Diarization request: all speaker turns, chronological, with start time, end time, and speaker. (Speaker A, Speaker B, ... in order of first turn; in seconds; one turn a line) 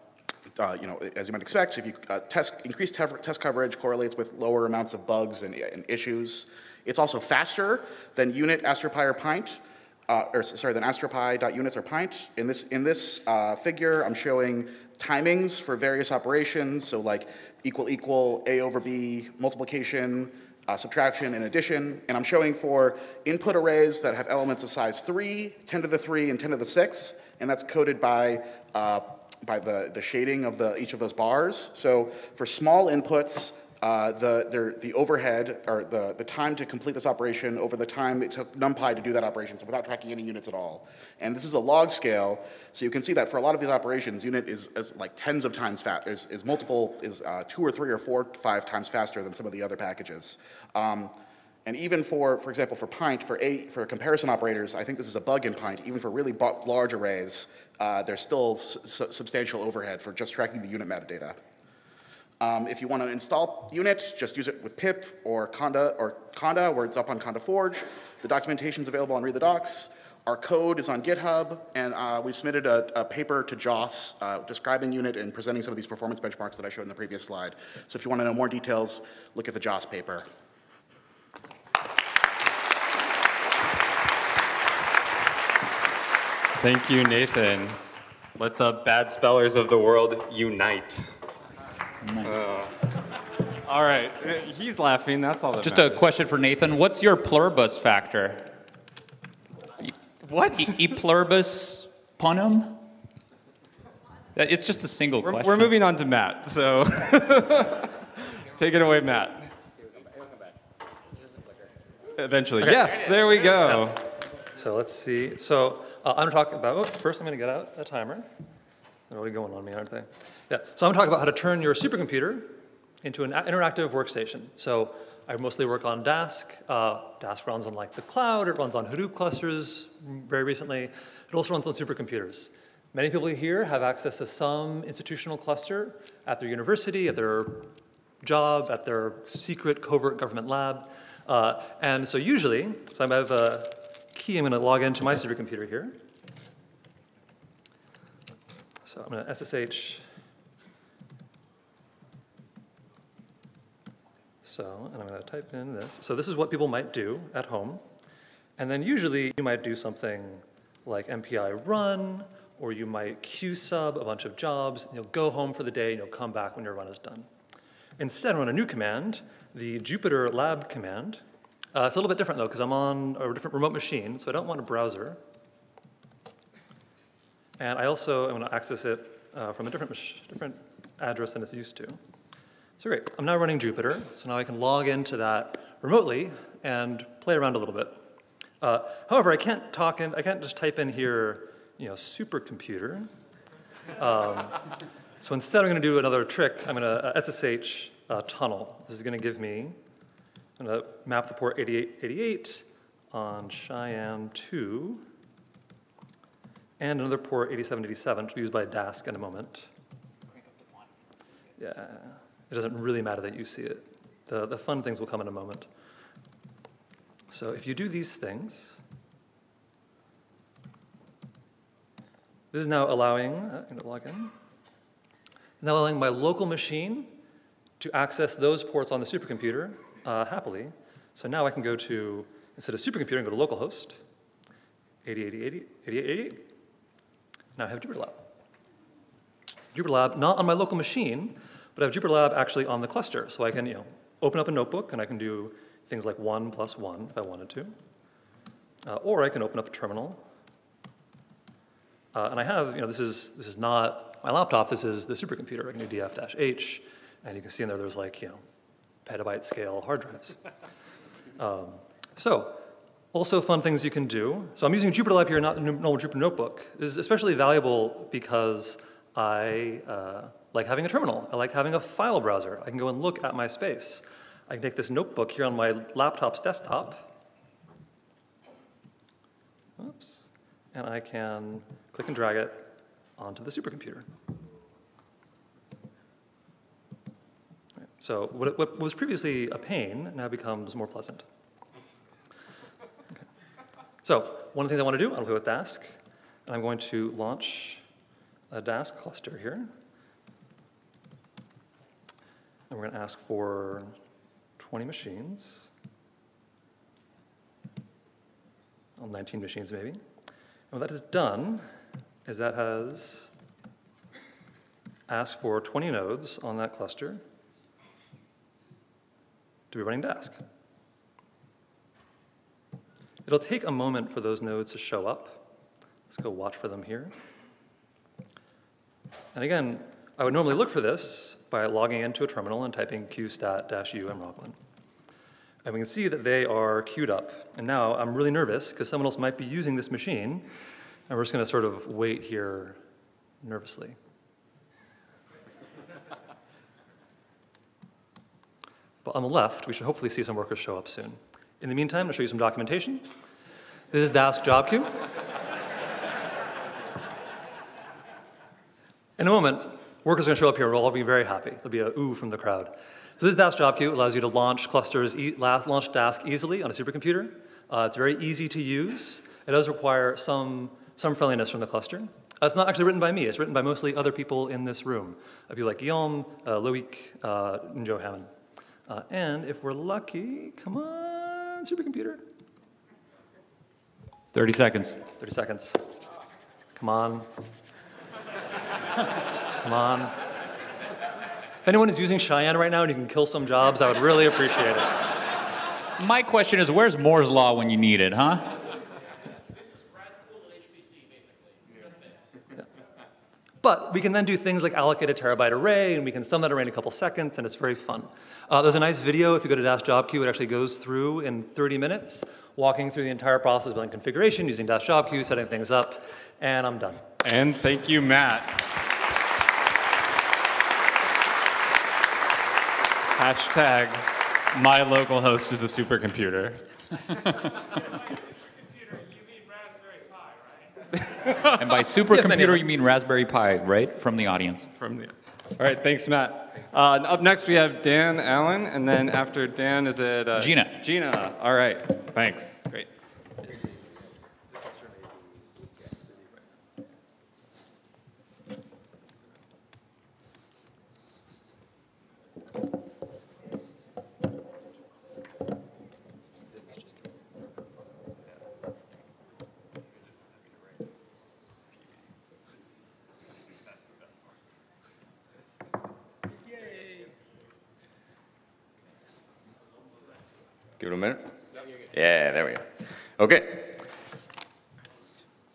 Speaker A: 0.6-51.1
Speaker A: 51.6-61.4
Speaker A: 62.4-80.3
Speaker B: 86.6-87.8
Speaker B: 88.3-91.1
Speaker C: 92.0-92.4
Speaker B: 92.2-92.7
Speaker B: 93.7-96.1
Speaker C: 95.6-98.5
Speaker B: 100.2-101.0
Speaker C: 100.5-102.8
Speaker C: 104.3-105.7
Speaker B: 105.2-107.9
Speaker B: 108.5-109.5
Speaker B: 112.2-114.0
Speaker D: 112.6-113.9
Speaker D: 114.5-118.3
Speaker D: 119.1-146.0
Speaker D: 148.8-150.0
Speaker D: 154.4-157.8
Speaker D: 158.6-167.3
Speaker D: 168.0-171.2
Speaker D: 171.7-175.2
Speaker D: 177.6-182.0
Speaker D: 182.8-188.0
Speaker D: 188.6-193.1
Speaker D: 194.0-194.6
Speaker D: 195.2-199.8
Speaker D: 200.6-205.0
Speaker D: 206.8-209.7
Speaker D: 211.6-215.7
Speaker D: 217.3-218.8
Speaker D: 222.5-224.3
Speaker D: 225.6-227.2
Speaker D: 227.8-234.0
Speaker D: 235.0-236.5
Speaker D: 237.6-238.3
Speaker D: 239.7-247.7
Speaker D: 248.8-250.2
Speaker D: 252.1-258.4
Speaker D: 259.0-260.4
Speaker D: 261.4-262.6
Speaker D: 263.1-277.1
Speaker D: 279.8-284.1
Speaker D: 288.0-291.2
Speaker D: 294.0-295.9
Speaker D: 296.4-297.8
Speaker D: 298.5-299.7
Speaker D: 302.7-303.9
Speaker D: 304.6-305.7
Speaker D: 309.0-310.0
Speaker D: 310.7-311.6
Speaker D: 312.2-313.3
Speaker D: 315.1-317.2
Speaker D: 319.7-320.4
Speaker D: 323.2-325.4
Speaker D: 326.1-327.1
Speaker D: 329.3-334.6
Speaker D: 335.6-340.5
Speaker D: 341.1-342.8
Speaker D: 343.4-344.0
Speaker D: 349.0-353.1
Speaker D: 353.9-354.9
Speaker D: 359.2-378.3
Speaker D: 378.9-382.2
Speaker C: 384.3-385.0
Speaker D: 385.2-385.9
Speaker D: 386.8-387.3
Speaker D: 389.6-390.1
Speaker D: 391.6-395.0
Speaker C: 396.0-398.5
Speaker D: 403.6-417.1
Speaker B: 417.2-418.7
Speaker B: 423.1-426.7
Speaker B: 431.2-432.5
Speaker C: 431.6-434.7
Speaker B: 434.7-442.9
Speaker C: 440.4-440.8
Speaker E: 470.8-471.3
Speaker E: 471.9-473.9